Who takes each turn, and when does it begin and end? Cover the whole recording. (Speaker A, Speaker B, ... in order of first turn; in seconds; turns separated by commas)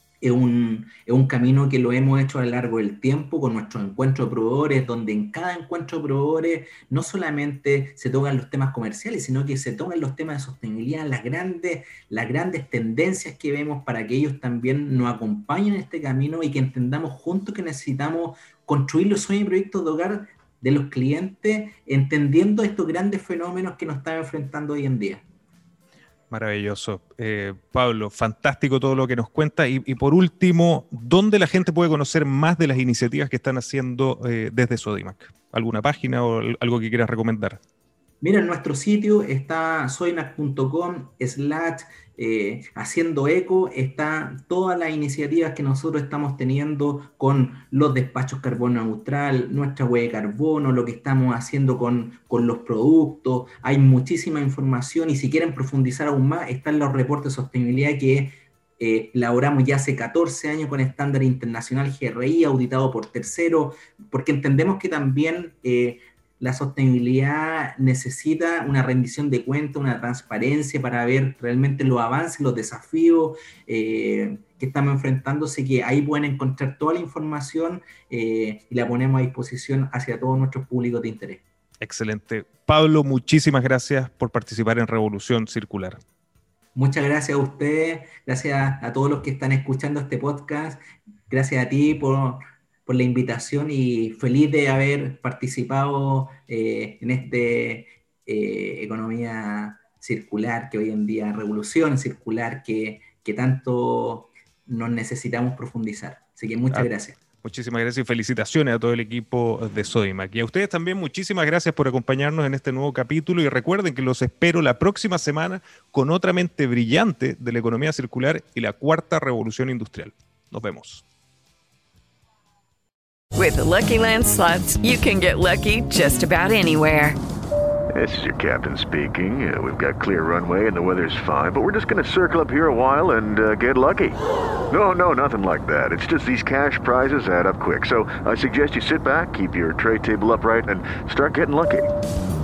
Speaker A: 0.2-25.2, Speaker B: 26.3-37.6, Speaker A: 38.2-81.4, Speaker B: 81.8-86.0, Speaker A: 86.8-107.2, Speaker B: 107.4-121.0, Speaker C: 123.3-127.2, Speaker D: 127.9-134.2, Speaker D: 134.7-141.9